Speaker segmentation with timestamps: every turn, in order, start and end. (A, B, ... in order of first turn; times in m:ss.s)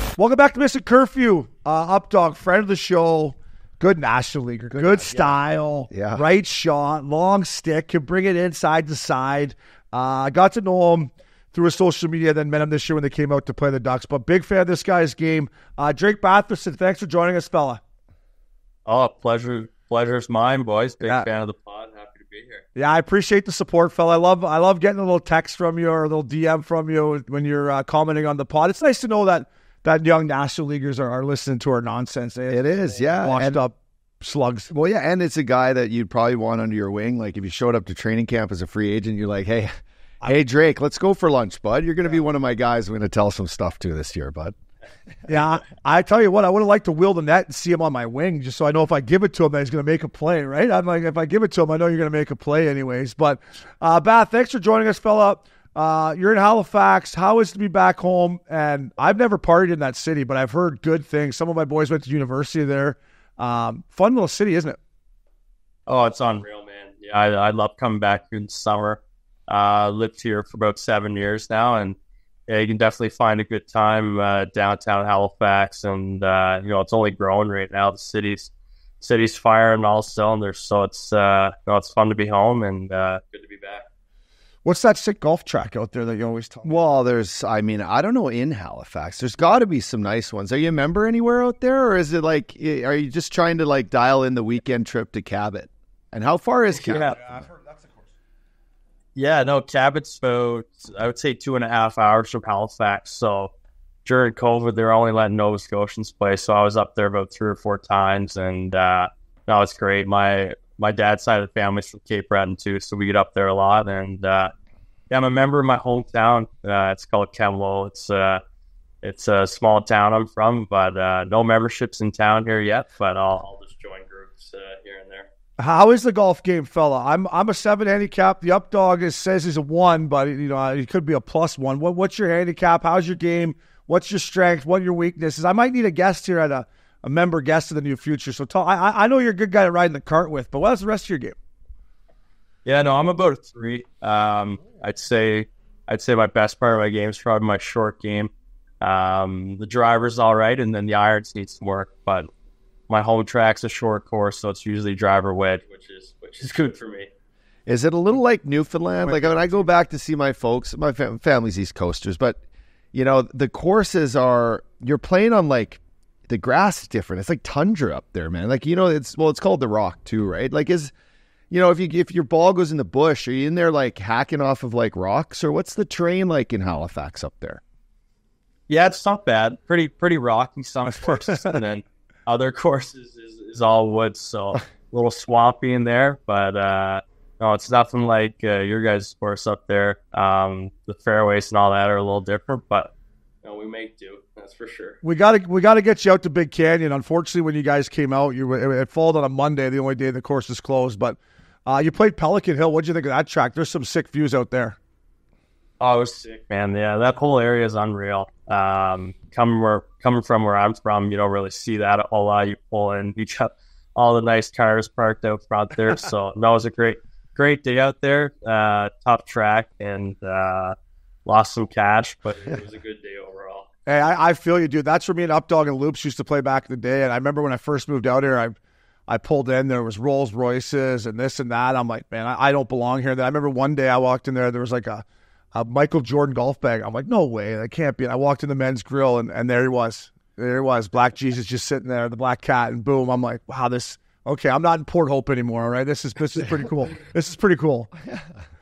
0:00.2-0:17.8 A
0:04.7-0:05.2 B
0:05.9-0:06.2 B
0:18.9-0:22.6 C
0:22.8-0:34.7 A
0:32.5-0:33.6 B
0:34.7-0:39.7 B
0:40.2-0:44.6 B
0:45.3-1:04.8 A
1:05.9-1:12.0 C
1:12.5-1:23.9 C
1:24.6-1:26.7 A
1:26.6-1:37.4 B
1:36.8-1:37.2 C
1:36.9-1:38.0 A
1:39.2-1:43.5 C
1:44.0-1:54.5 C
1:55.1-1:58.4 C
1:59.0-2:05.3 C
2:05.6-2:21.4 A
2:22.6-2:32.3 C
2:32.9-2:37.1 C
2:37.7-2:42.4 B
2:39.1-2:39.3 A
2:42.9-2:50.9 B
2:51.5-2:57.6 B
2:58.7-3:12.9 C
3:13.4-3:15.0 C
3:15.0-3:24.8 A
3:25.8-3:43.7 C
3:43.9-3:48.6 A
3:49.1-4:07.9 A